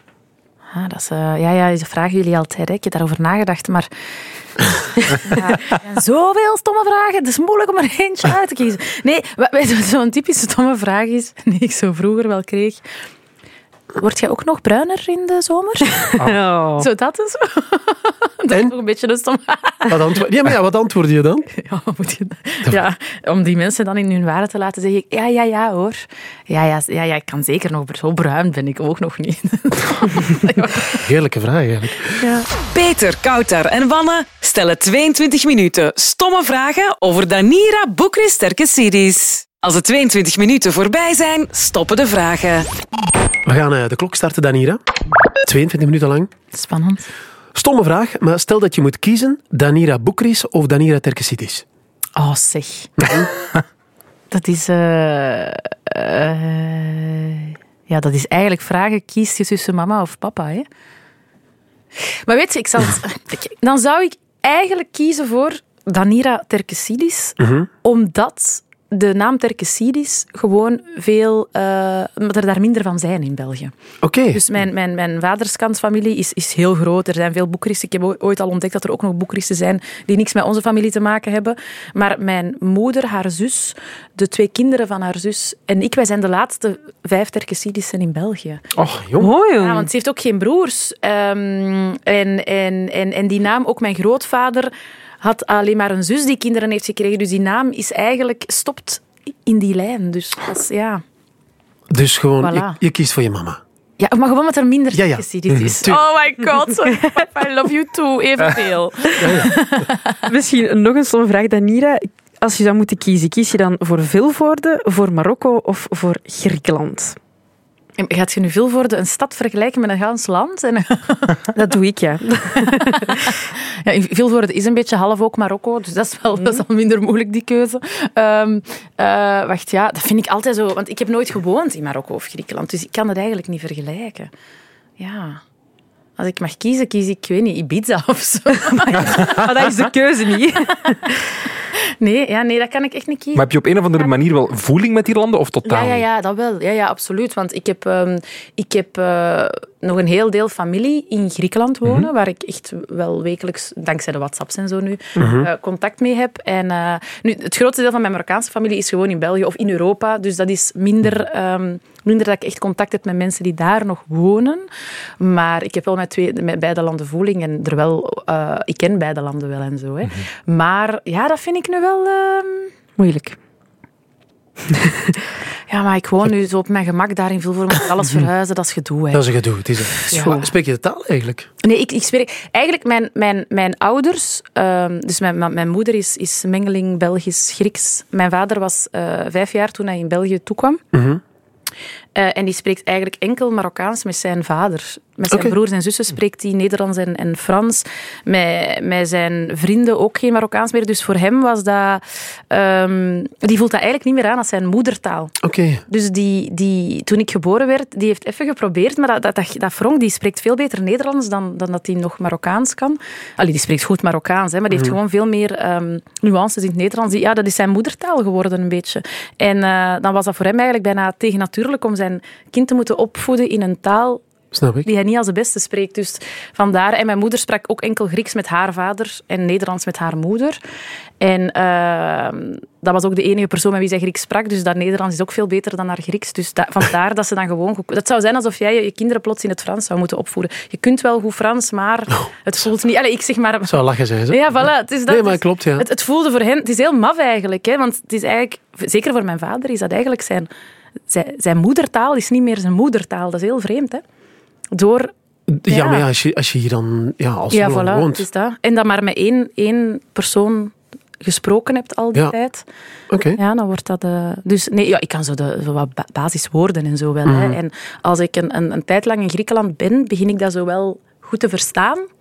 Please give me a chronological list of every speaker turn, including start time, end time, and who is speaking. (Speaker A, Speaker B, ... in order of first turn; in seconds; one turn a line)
Speaker A: 0.7-3.9
Speaker A: 4.8-12.8
Speaker A: 14.0-16.0
Speaker B: 16.1-16.9
Speaker A: 16.8-20.1
Speaker C: 19.9-21.5
Speaker A: 21.5-31.1
Speaker C: 31.0-32.2
Speaker D: 32.6-42.7
Speaker C: 43.5-44.8
Speaker C: 45.4-46.3
Speaker A: 46.5-47.1
Speaker C: 47.5-51.6
Speaker A: 52.2-53.2
Speaker C: 53.0-53.2
Speaker A: 54.3-60.7
Speaker A: 62.2-73.7
Speaker C: 67.4-67.7
Speaker C: 74.0-74.4
Speaker A: 74.3-88.6
Speaker C: 88.8-89.3
Speaker B: 89.2-89.9
Speaker A: 89.5-101.0
Speaker C: 101.9-103.6
Speaker A: 102.4-102.8
Speaker A: 104.0-110.2
Speaker C: 104.9-106.0
Speaker C: 109.2-109.5
Speaker B: 110.2-117.2
Speaker A: 118.0-121.5
Speaker B: 121.5-123.3
Speaker A: 122.6-134.3
Speaker A: 135.0-135.4
Speaker A: 136.2-139.5
Speaker B: 139.1-141.2
Speaker A: 142.0-143.5
Speaker E: 143.3-146.0
Speaker A: 145.6-164.7
Speaker C: 155.2-155.5
Speaker A: 165.2-172.7
Speaker B: 173.0-173.4
Speaker B: 174.7-175.3
Speaker A: 175.7-179.2
Speaker C: 179.1-181.5
Speaker A: 179.9-180.5
Speaker A: 181.6-190.8
Speaker C: 190.9-191.2
Speaker A: 192.2-205.3
Speaker C: 195.3-195.6
Speaker C: 205.4-205.8
Speaker A: 205.9-224.2
Speaker C: 224.5-224.9
Speaker A: 224.8-230.6
Speaker A: 231.2-250.5
Speaker C: 243.7-245.9
Speaker A: 251.1-254.0
Speaker A: 254.7-255.1
Speaker C: 255.5-258.2
Speaker A: 255.7-256.1
Speaker A: 257.5-262.7
Speaker C: 263.1-263.4
Speaker A: 263.4-272.1
Speaker C: 267.2-267.6